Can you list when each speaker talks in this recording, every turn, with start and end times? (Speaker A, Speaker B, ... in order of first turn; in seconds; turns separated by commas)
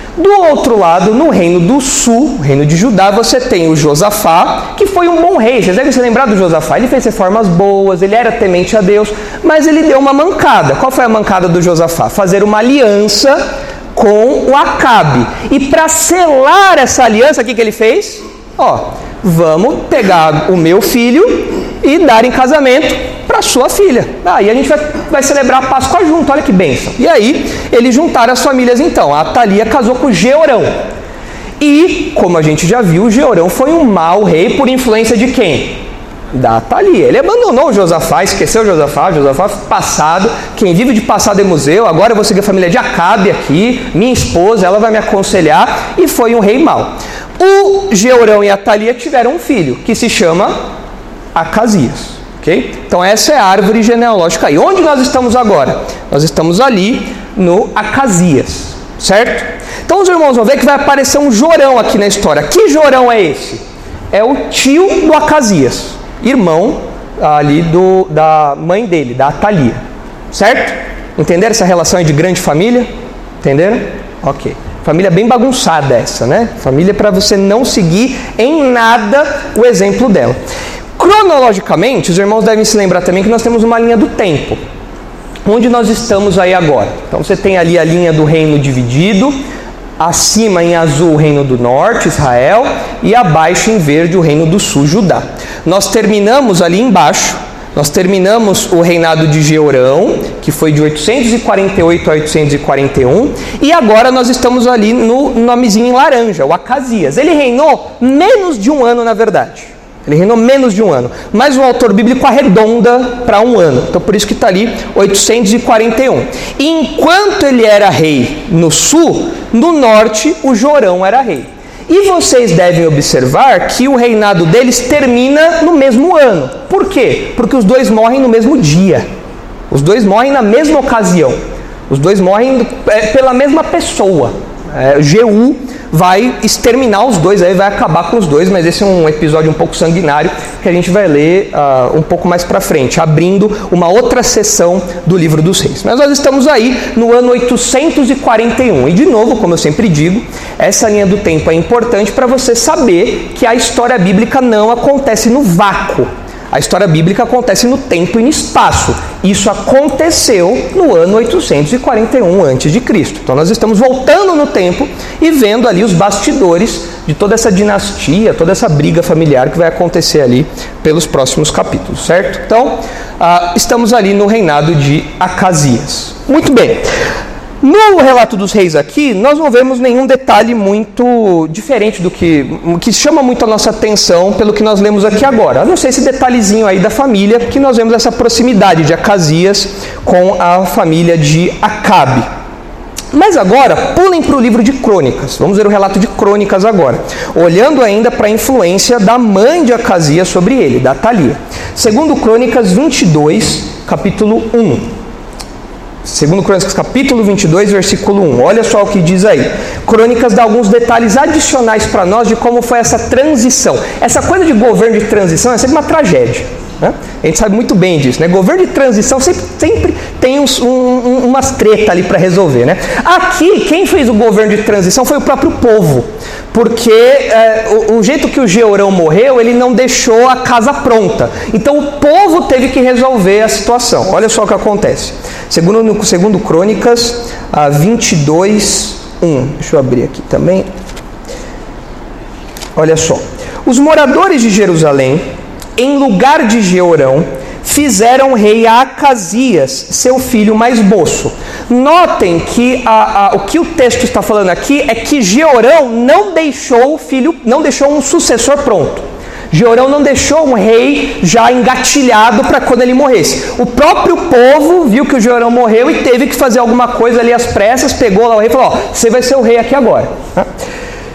Speaker A: 0.2-13.4, Speaker A: 13.9-30.7, Speaker A: 31.6-35.8, Speaker A: 36.3-50.5, Speaker A: 51.4-69.8, Speaker A: 70.3-72.9, Speaker A: 73.4-80.4, Speaker A: 81.0-84.6, Speaker A: 85.5-89.3, Speaker A: 90.0-129.1, Speaker A: 129.7-131.4, Speaker A: 131.9-176.9, Speaker A: 177.6-192.2, Speaker A: 193.1-204.9, Speaker A: 206.1-240.7, Speaker A: 242.8-245.2, Speaker A: 245.8-270.5